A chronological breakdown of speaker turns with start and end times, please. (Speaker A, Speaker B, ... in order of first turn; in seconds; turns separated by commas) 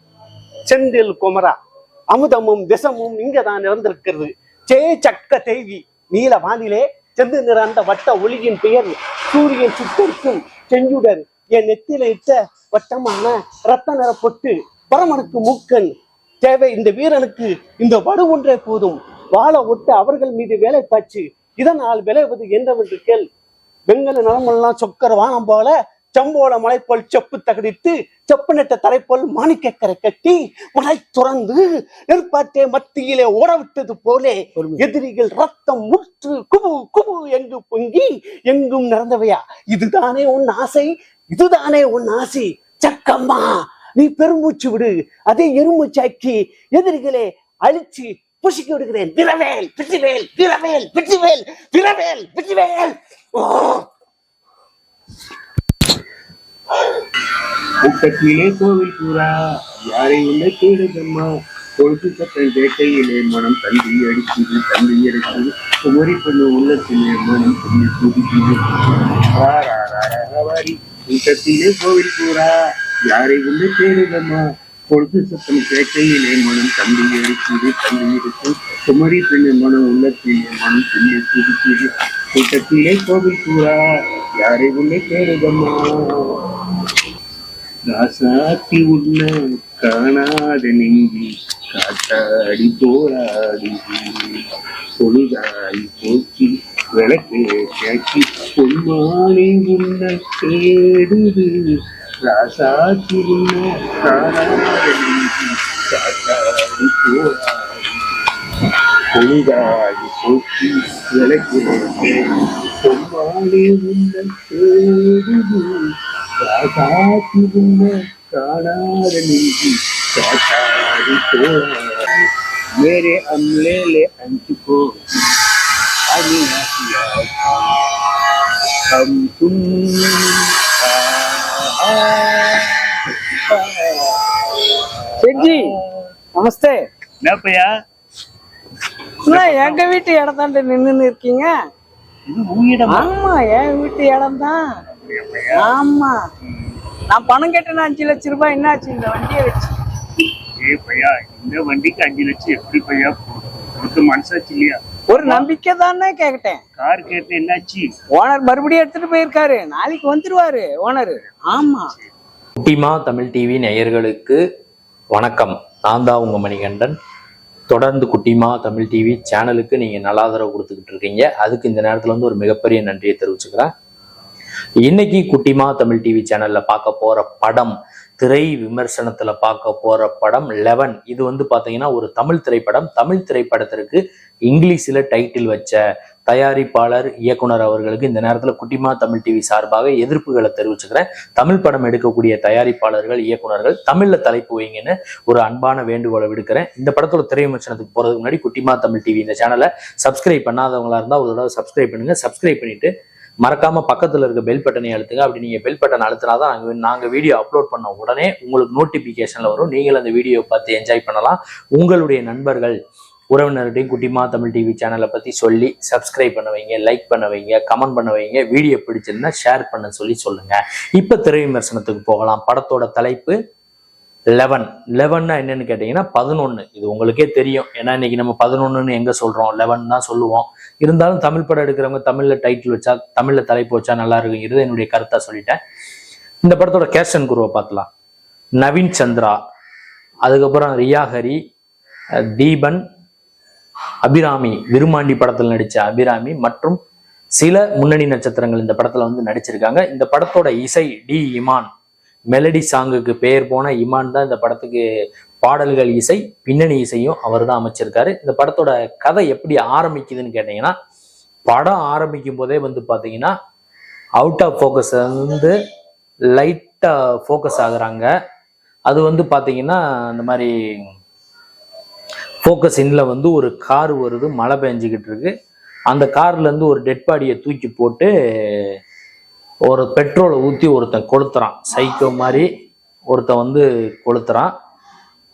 Speaker A: 0.7-1.6, Speaker A: 2.1-15.9, Speaker A: 16.4-23.2, Speaker A: 23.9-53.9, Speaker B: 57.9-59.3, Speaker B: 59.9-61.3, Speaker B: 61.8-72.5, Speaker B: 73.1-83.8, Speaker B: 84.4-86.0, Speaker B: 87.9-94.4, Speaker B: 95.0-108.2, Speaker B: 109.1-112.3, Speaker B: 112.8-115.9, Speaker B: 116.4-122.2, Speaker B: 122.8-125.0, Speaker B: 126.1-127.6, Speaker B: 128.9-132.9, Speaker B: 133.5-136.0, Speaker C: 135.2-135.7, Speaker C: 136.3-136.9, Speaker B: 137.2-137.7, Speaker C: 139.3-141.6, Speaker B: 139.3-139.9, Speaker B: 142.3-143.1, Speaker C: 142.9-144.7, Speaker B: 144.9-145.7, Speaker C: 145.6-146.2, Speaker C: 147.1-149.8, Speaker B: 150.6-155.5, Speaker C: 155.1-156.6, Speaker B: 156.8-157.9, Speaker C: 158.1-161.9, Speaker D: 162.6-164.4, Speaker D: 165.1-166.9, Speaker D: 167.7-173.7, Speaker D: 174.8-202.9, Speaker D: 203.4-212.8, Speaker D: 213.3-223.4, Speaker D: 224.3-235.6, Speaker D: 236.4-237.9, Speaker D: 238.6-239.4, Speaker D: 240.2-241.4, Speaker D: 242.4-242.8, Speaker D: 244.0-246.8, Speaker D: 247.4-251.7, Speaker D: 252.3-254.8, Speaker D: 255.4-260.7, Speaker D: 261.5-263.3, Speaker D: 264.2-265.5, Speaker D: 266.3-268.1, Speaker D: 268.9-270.9, Speaker D: 272.4-275.3, Speaker D: 275.9-278.8, Speaker D: 279.7-282.5, Speaker D: 283.1-284.5